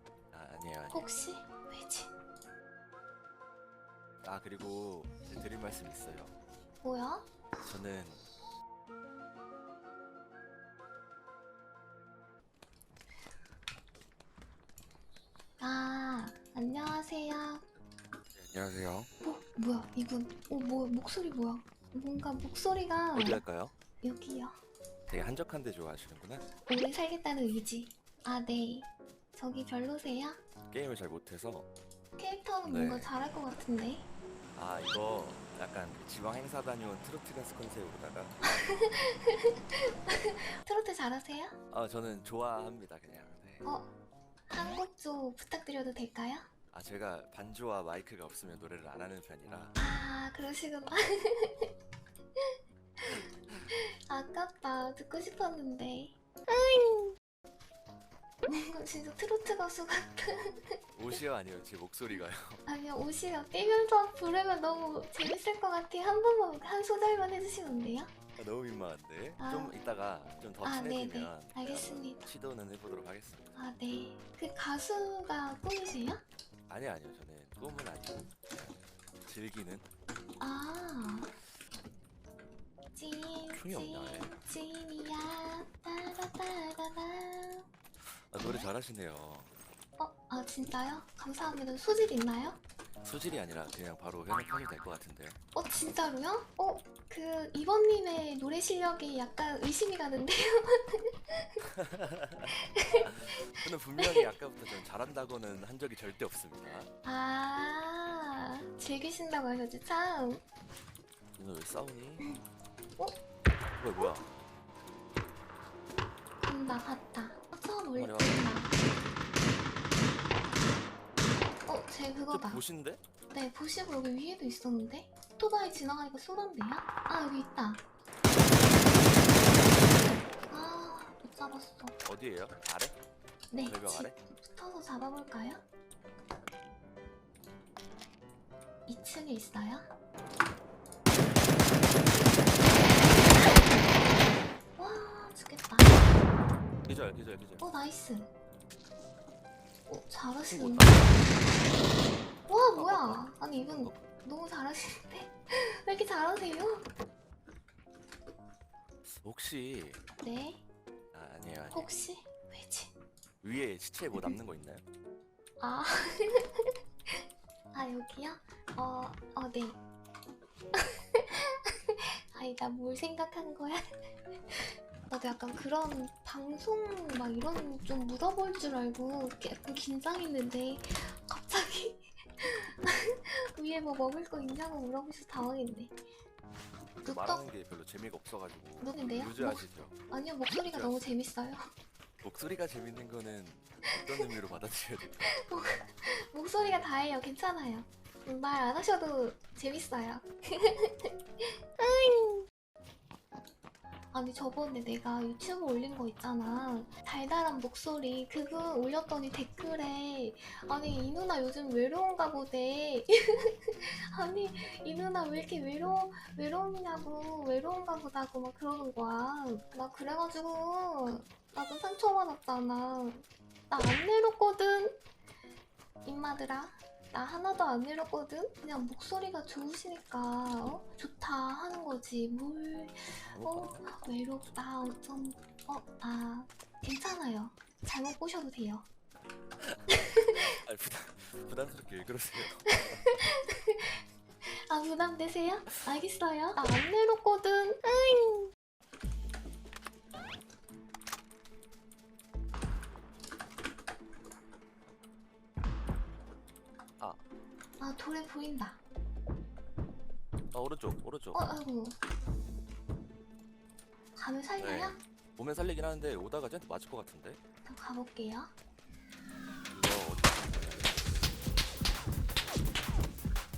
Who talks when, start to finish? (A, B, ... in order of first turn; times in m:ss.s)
0:00.3-0:01.1 A
0:00.9-0:02.1 B
0:04.2-0:06.3 A
0:06.8-0:07.3 B
0:07.6-0:08.2 A
0:15.6-0:17.6 B
0:18.3-0:19.1 A
0:19.2-0:23.4 B
0:23.1-0:23.7 A
0:24.0-0:24.6 B
0:25.1-0:26.5 A
0:26.7-0:30.4 B
0:30.7-0:31.7 A
0:32.2-0:34.1 B
0:32.6-0:33.1 A
0:34.6-0:38.4 A
0:38.4-0:41.6 B
0:41.7-0:43.6 A
0:43.6-0:43.9 B
0:44.5-0:46.5 B
0:46.7-0:49.7 A
0:49.8-0:51.7 B
0:53.7-0:57.2 B
0:58.5-1:00.8 B
1:01.0-1:02.6 A
1:02.6-1:08.1 B
1:08.4-1:13.5 A
1:09.4-1:09.8 B
1:10.6-1:12.2 B
1:13.5-1:16.2 B
1:16.7-1:19.9 A
1:20.4-1:21.3 B
1:22.9-1:27.6 B
1:23.5-1:24.4 A
1:28.3-1:29.5 A
1:30.0-1:32.6 B
1:33.0-1:35.4 A
1:35.5-1:41.6 B
1:41.6-1:46.9 A
1:42.5-1:44.3 B
1:47.0-1:50.4 B
1:51.4-1:52.2 A
1:53.8-1:54.3 A
1:56.4-1:58.7 B
1:57.9-1:58.6 A
2:01.6-2:02.6 B
2:02.3-2:03.0 A
2:03.3-2:07.8 B
2:10.5-2:12.0 B
2:12.0-2:13.0 A
2:13.5-2:15.6 B
2:13.6-2:14.2 A
2:18.9-2:19.9 B
2:23.2-2:23.9 B
2:24.8-2:26.1 B
2:26.9-2:27.6 A
2:27.6-2:28.3 B
2:29.9-2:31.3 B
2:30.5-2:31.4 A
2:32.5-2:36.8 B
2:32.7-2:34.0 A
2:39.0-2:40.0 A
2:40.2-2:40.6 B
2:41.1-2:41.9 A
2:41.7-2:42.9 B
2:43.4-2:44.8 A
2:45.6-2:47.2 B
2:47.7-2:49.8 B
2:50.7-2:53.8 B
2:54.5-3:06.0 B
3:07.0-3:09.9 A
3:07.0-3:07.5 B
3:08.8-3:11.7 B
3:10.7-3:11.1 A
3:12.2-3:15.3 A
3:14.1-3:14.4 B
3:15.2-3:22.5 B
3:24.1-3:45.0 B
3:46.0-3:58.9 B
3:53.3-3:54.6 A
3:59.6-4:03.0 A
3:59.9-4:00.4 B
4:02.7-4:04.0 B
4:04.7-4:08.0 B
4:17.8-4:18.8 B
4:20.5-4:21.5 A
4:21.3-4:22.0 B
4:24.2-4:25.0 B
4:24.6-4:27.4 A
4:27.6-4:28.5 B
4:29.7-4:31.3 A